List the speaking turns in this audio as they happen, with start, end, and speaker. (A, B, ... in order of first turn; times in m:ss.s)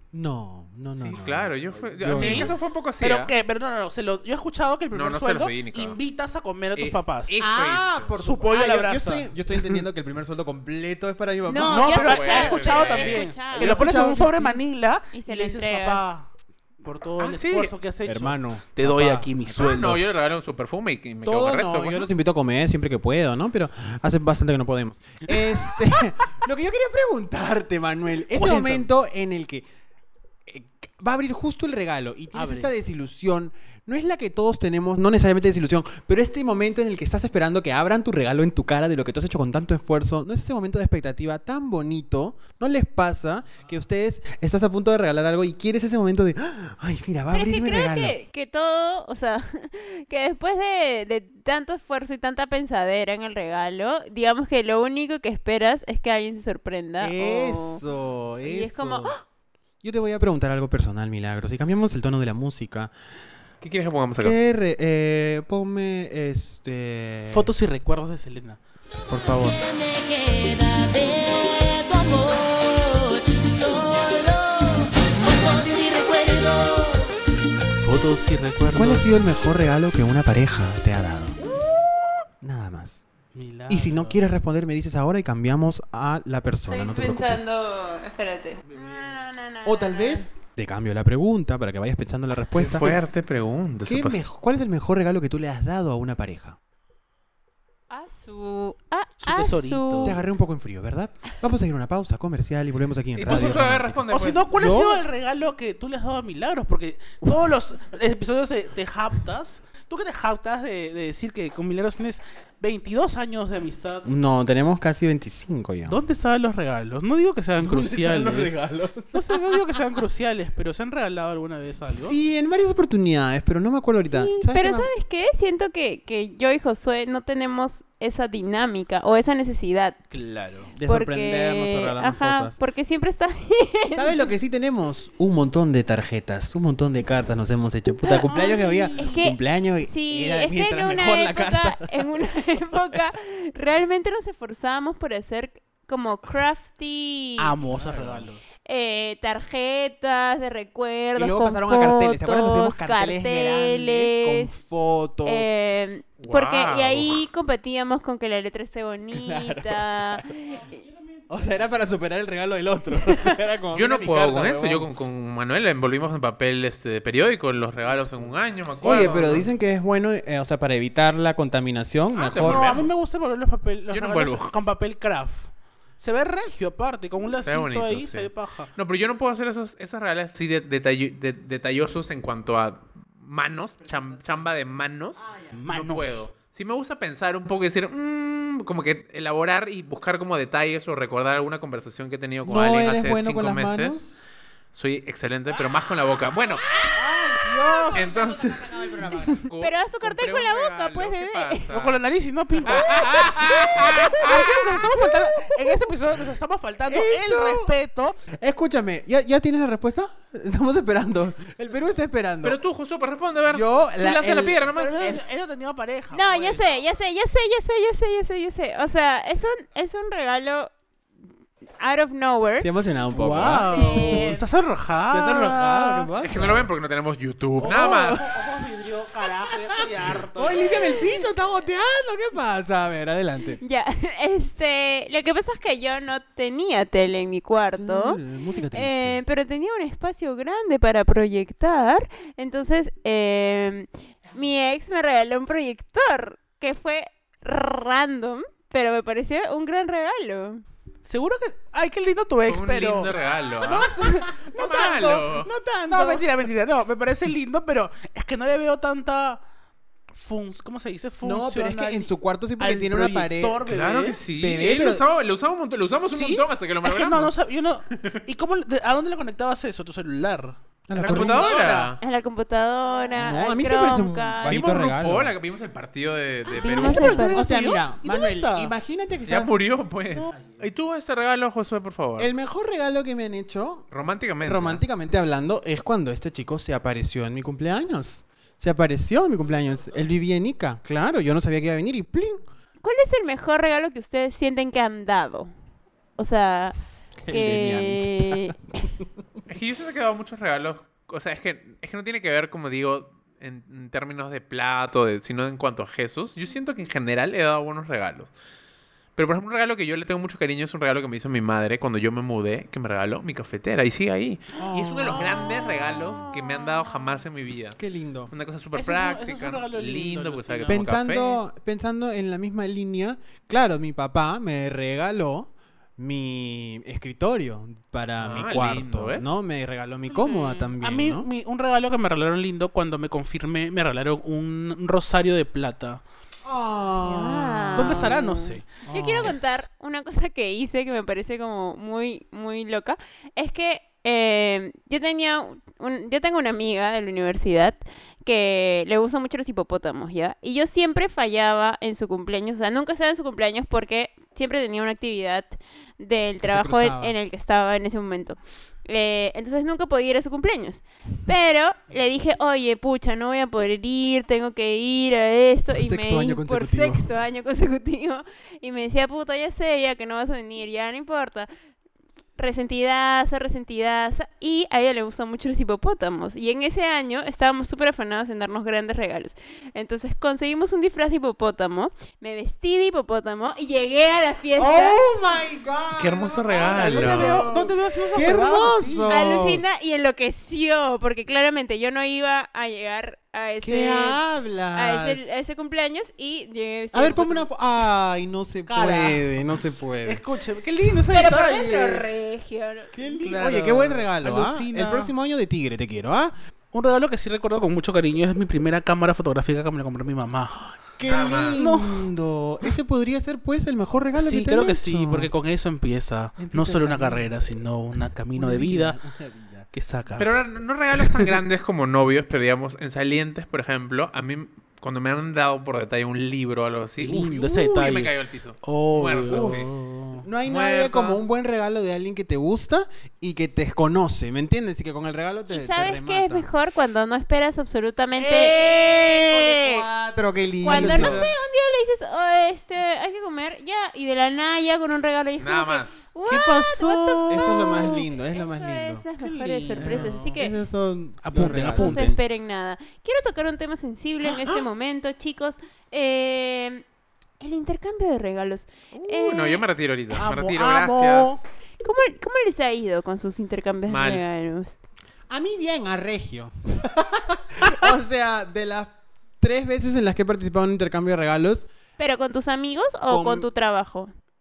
0:00.1-0:02.6 A
0:01.0-0:03.3 B
0:02.0-0:07.3 C
0:04.9-0:06.0 B
0:06.8-0:08.1 B
0:07.4-0:12.2 A
0:08.2-0:09.8 C
0:11.5-0:14.1 D
0:11.6-0:16.3 C
0:11.9-0:13.3 B
0:13.5-0:14.6 A
0:15.1-0:16.1 D
0:16.8-0:20.0 C
0:17.2-0:17.7 B
0:18.0-0:19.8 A
0:19.5-0:22.1 B
0:21.2-0:29.7 A
0:25.3-0:26.0 C
0:28.3-0:28.8 C
0:30.5-0:48.2 A
0:32.3-0:32.7 C
0:47.3-0:57.8 D
0:57.0-0:59.1 A
0:58.4-0:59.2 D
0:59.8-1:02.9 A
1:03.6-1:04.4 B
1:04.2-1:07.5 A
1:07.3-1:08.6 C
1:09.1-1:09.6 A
1:09.5-1:17.1 E
1:17.8-1:19.0 C
1:18.7-1:21.4 A
1:22.4-1:23.0 A
1:23.3-1:24.2 C
1:23.7-1:27.4 A
1:26.7-1:30.3 D
1:29.6-1:33.0 A
1:32.6-1:34.2 B
1:33.9-1:36.6 A
1:37.9-1:40.2 D
1:39.2-1:40.2 C
1:40.0-1:45.0 A
1:43.2-1:44.5 B
1:44.1-1:54.1 C
1:54.0-1:56.0 A
1:55.9-1:58.6 C
1:57.6-1:59.6 A
1:59.1-2:02.2 C
2:01.9-2:04.9 A
2:04.0-2:10.0 D
2:10.1-2:10.7 C
2:10.7-2:12.6 A
2:10.8-2:14.3 D
2:13.9-2:22.3 A
2:18.0-2:27.5 D
2:27.4-2:28.4 C
2:27.7-2:28.3 B
2:28.7-2:34.6 D
2:31.2-2:35.5 A
2:35.2-2:40.8 D
2:36.2-2:37.2 B
2:39.1-2:40.2 A
2:41.3-2:44.9 A
2:43.7-2:49.5 B
2:48.8-2:49.4 C
2:48.8-2:52.8 A
2:52.1-2:52.9 B
2:52.4-2:58.7 C
2:53.9-2:54.7 B
2:57.4-3:14.0 B
3:05.2-3:05.5 A
3:05.5-3:06.2 C
3:12.4-3:14.1 A
3:14.7-3:16.7 B
3:17.0-3:18.2 C
3:17.6-3:19.4 A
3:17.9-3:22.0 B
3:19.5-3:21.7 D
3:21.7-3:28.2 C
3:22.6-3:24.9 B
3:25.1-3:25.8 A
3:26.9-3:27.7 A
3:28.3-3:32.6 A
3:32.4-3:35.2 B
3:33.5-3:35.2 A
3:34.8-3:36.6 C
3:36.1-3:40.7 D
3:41.8-3:42.7 D
3:42.6-3:44.4 A
3:43.1-3:46.1 C
3:43.6-3:44.4 D
3:45.1-3:46.7 A
3:46.2-3:48.4 B
3:47.6-3:51.1 C
3:47.6-3:53.6 A
3:50.6-3:51.2 D
3:53.6-3:58.2 D
3:57.8-3:59.2 A
3:58.7-4:10.6 D
4:11.0-4:14.4 C
4:12.4-4:13.9 B
4:14.0-4:16.3 A
4:14.5-4:15.5 B
4:15.9-4:19.4 C
4:20.1-4:24.2 C
4:21.2-4:23.6 A
4:23.7-4:27.4 B
4:24.4-4:25.0 A
4:26.0-4:32.0 C
4:28.0-4:28.2 B
4:30.9-4:31.5 A
4:30.9-4:32.0 B
4:32.0-4:34.7 D
4:33.2-4:35.3 A
4:34.4-4:37.2 B
4:36.5-4:38.7 C
4:36.6-4:37.4 D
4:36.7-4:39.6 A
4:39.3-4:42.3 B
4:40.1-4:40.4 C
4:42.2-4:43.9 A
4:43.9-4:44.8 B
4:44.4-4:52.4 A
4:52.8-4:55.5 D
4:56.2-4:56.8 D
4:57.2-4:59.0 A
4:57.3-4:58.9 D
4:59.5-5:08.3 B
5:09.2-5:21.4 B
5:14.6-5:16.4 A
5:17.8-5:18.3 A
5:18.8-5:20.9 C
5:20.7-5:31.3 A
5:28.2-5:29.3 B
5:30.1-5:36.0 C
5:36.4-5:38.2 A
5:37.0-6:11.5 D
5:37.8-5:39.3 C
5:38.9-5:39.4 A
5:56.4-5:57.2 A
6:05.7-6:07.1 A
6:12.4-6:25.1 D
6:24.6-6:29.6 A
6:26.0-6:27.5 B
6:26.7-6:29.2 C
6:29.1-6:34.2 D
6:33.6-6:35.3 A
6:34.8-6:37.5 D
6:36.9-6:40.2 A
6:38.7-6:39.2 C
6:40.0-6:42.1 C
6:41.1-6:42.9 D
6:42.9-6:46.3 A
6:43.2-6:45.1 C
6:46.7-6:50.6 C
6:50.9-6:55.3 A
6:51.1-6:51.6 B
6:51.6-6:52.1 C
6:54.2-6:59.0 C
6:56.4-6:57.3 A
6:58.3-6:59.7 A
6:59.7-7:00.3 C
7:00.2-7:09.7 B
7:01.0-7:01.3 C
7:07.0-7:10.3 C
7:09.3-7:16.5 A
7:10.4-7:11.2 B
7:15.5-7:19.9 D
7:18.2-7:18.7 C
7:18.6-7:21.3 A
7:20.6-7:30.6 D
7:20.7-7:21.3 C
7:25.4-7:26.0 B
7:26.3-7:28.0 C
7:27.3-7:29.0 A
7:29.2-7:30.4 C
7:29.8-7:32.1 A
7:31.2-7:32.2 C
7:31.4-7:36.8 D
7:37.4-7:39.6 D
7:38.9-7:41.4 B
7:40.1-7:41.4 C
7:41.8-7:44.8 D
7:43.9-7:44.2 B
7:45.3-7:51.7 A
7:52.0-7:54.1 D
7:53.1-7:53.5 A